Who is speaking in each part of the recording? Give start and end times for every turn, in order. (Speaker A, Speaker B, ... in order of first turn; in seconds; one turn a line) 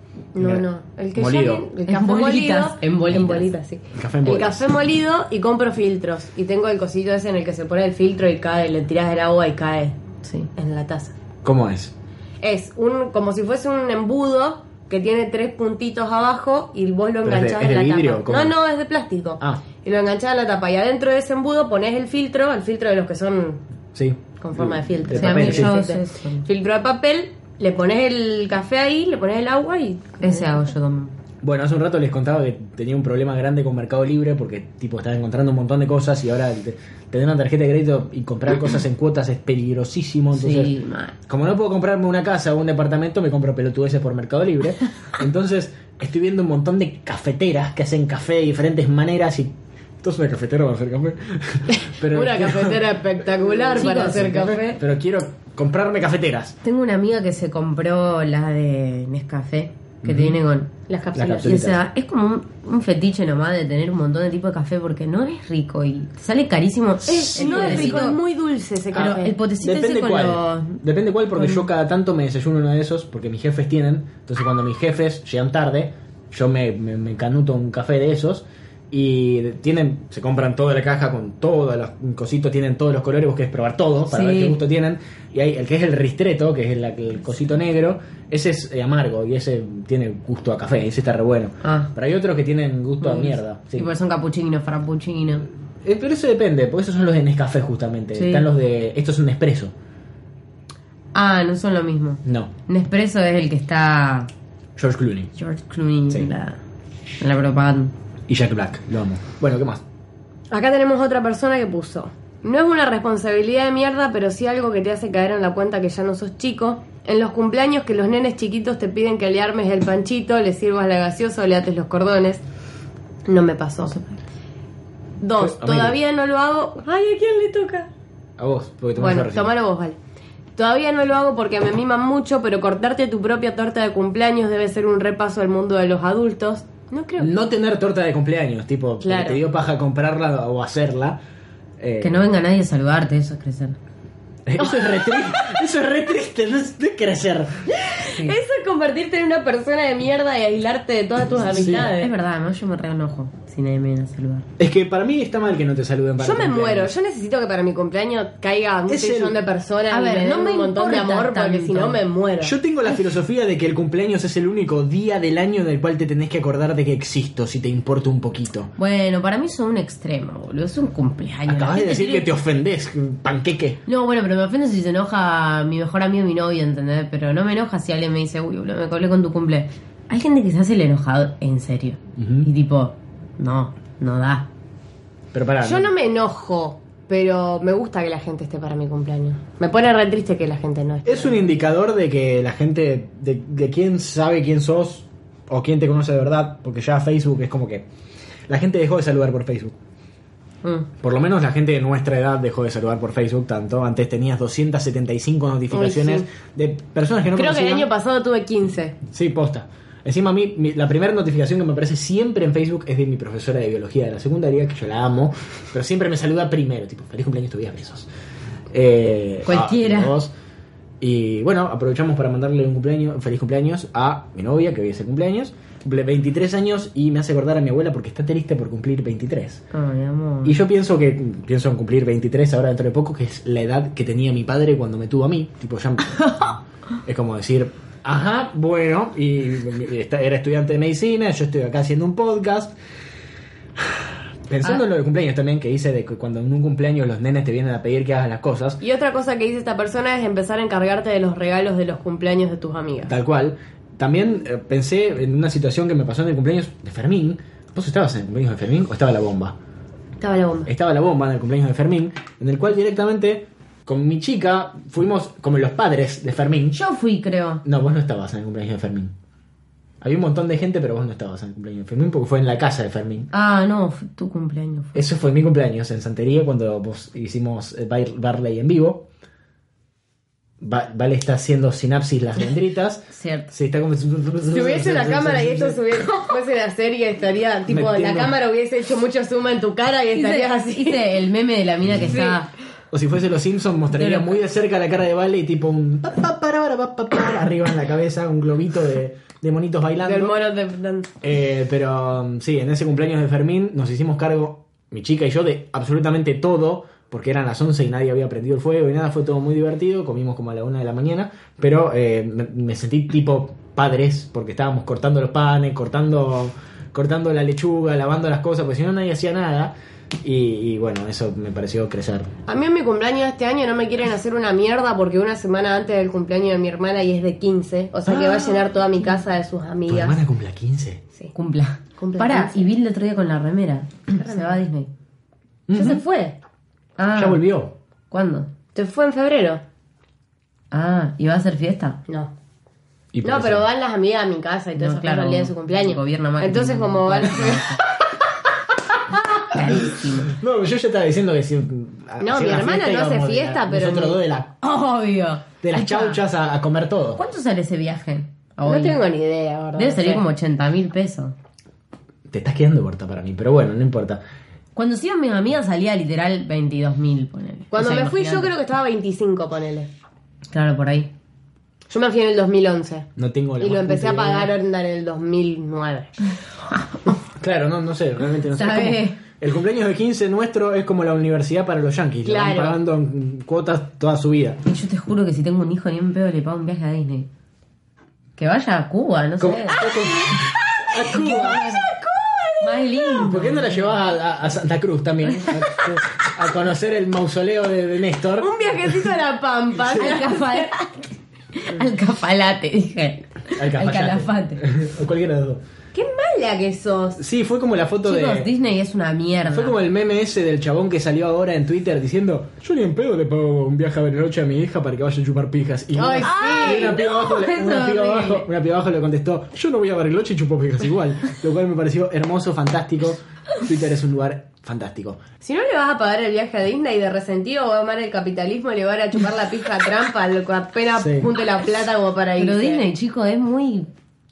Speaker A: 0.3-10.0
Speaker B: 0.4-1.7
Speaker C: 1.9-3.5
Speaker B: 3.1-4.6
Speaker C: 10.2-10.5
Speaker A: 10.5-11.1
Speaker B: 11.4-11.9
Speaker A: 12.4-23.6
Speaker B: 17.2-18.5
Speaker B: 23.9-25.8
Speaker A: 24.4-30.6
Speaker C: 25.1-26.4
Speaker C: 30.2-31.1
Speaker B: 31.4-40.7
Speaker C: 40.3-41.1
Speaker B: 41.3-56.6
Speaker A: 52.1-54.8
Speaker C: 53.8-54.5
Speaker C: 56.6-60.7
Speaker B: 60.0-60.4
Speaker A: 60.9-61.5
Speaker B: 61.1-61.8
Speaker C: 61.4-68.2
Speaker A: 67.0-69.3
Speaker B: 67.1-68.1
Speaker C: 68.9-70.8
Speaker B: 68.9-93.9
Speaker C: 71.3-71.7
Speaker C: 84.1-84.6
Speaker C: 91.6-91.9
Speaker C: 93.0-95.5
Speaker B: 95.8-99.7
Speaker C: 98.1-98.5
Speaker C: 101.1-104.3
Speaker B: 102.2-102.5
Speaker B: 104.8-105.3
Speaker C: 105.3-106.6
Speaker C: 107.2-107.9
Speaker B: 108.3-109.8
Speaker A: 110.5-122.4
Speaker A: 123.2-124.2
Speaker A: 125.2-127.9
Speaker B: 125.4-126.0
Speaker B: 128.4-129.5
Speaker A: 129.0-130.0
Speaker A: 130.6-137.3
Speaker B: 137.2-141.2
Speaker A: 139.0-139.4
Speaker B: 141.8-142.2
Speaker C: 142.0-143.8
Speaker B: 144.4-147.7
Speaker A: 144.6-145.2
Speaker A: 147.8-152.1
Speaker B: 151.5-151.9
Speaker C: 151.5-154.4
Speaker B: 154.6-156.9
Speaker A: 156.2-162.6
Speaker B: 158.9-159.4
Speaker C: 159.9-162.0
Speaker B: 162.4-168.7
Speaker C: 168.8-172.3
Speaker B: 171.5-173.8
Speaker C: 173.8-184.5
Speaker B: 182.2-182.5
Speaker B: 185.3-185.9
Speaker A: 185.6-191.4
Speaker B: 191.0-197.8
Speaker B: 198.5-199.7
Speaker B: 201.0-207.9
Speaker A: 205.7-206.3
Speaker A: 207.3-209.0
Speaker B: 209.1-218.1
Speaker B: 218.7-220.3
Speaker C: 219.4-220.1
Speaker B: 221.0-229.6
Speaker C: 229.7-230.6
Speaker B: 230.4-242.7
Speaker B: 243.9-248.8
Speaker A: 248.8-253.1
Speaker B: 253.1-259.6
Speaker A: 260.2-260.7
Speaker B: 260.6-266.8
Speaker C: 266.7-267.6
Speaker B: 267.6-269.1
Speaker B: 270.0-273.3
Speaker C: 273.3-275.0
Speaker B: 274.9-279.1
Speaker B: 280.6-285.9
Speaker C: 283.1-283.5
Speaker A: 284.5-291.1
Speaker B: 287.7-288.3
Speaker C: 290.1-292.5
Speaker B: 291.9-292.1
Speaker A: 292.1-292.4
Speaker B: 292.9-300.4
Speaker C: 293.9-294.4
Speaker A: 300.0-301.1
Speaker B: 301.2-322.3
Speaker A: 322.5-330.2
Speaker B: 328.0-328.7
Speaker B: 329.9-331.0
Speaker C: 331.3-334.9
Speaker A: 332.0-332.6
Speaker A: 334.1-334.6
Speaker B: 335.7-336.0
Speaker A: 335.7-336.4
Speaker C: 337.0-337.4
Speaker B: 337.1-337.7
Speaker C: 338.1-338.5
Speaker A: 338.7-339.6
Speaker C: 340.7-342.0
Speaker B: 343.1-343.6
Speaker A: 343.2-347.7
Speaker C: 344.8-347.8
Speaker B: 348.9-354.5
Speaker C: 349.5-350.4
Speaker A: 352.2-354.2
Speaker C: 354.6-356.2
Speaker B: 355.6-357.2
Speaker C: 357.1-359.0
Speaker A: 358.6-360.2
Speaker C: 359.8-361.3
Speaker B: 362.3-364.2
Speaker C: 364.7-368.5
Speaker A: 367.7-369.9
Speaker C: 370.5-371.1
Speaker A: 371.9-376.1
Speaker B: 373.2-374.5
Speaker B: 377.4-384.6
Speaker C: 378.5-379.2
Speaker A: 382.2-382.8
Speaker C: 384.6-387.3
Speaker C: 388.4-389.9
Speaker B: 389.4-391.7
Speaker A: 390.2-393.4
Speaker C: 390.9-391.9
Speaker C: 392.6-394.0
Speaker B: 393.1-399.1
Speaker A: 398.4-400.7
Speaker B: 399.8-400.2
Speaker C: 399.9-404.6
Speaker B: 403.5-405.6
Speaker A: 405.9-407.2
Speaker B: 407.2-408.5
Speaker C: 408.0-409.8
Speaker B: 409.5-425.2
Speaker A: 415.9-417.0
Speaker C: 416.2-418.5
Speaker A: 425.4-432.9
Speaker B: 430.9-431.3
Speaker C: 432.4-433.9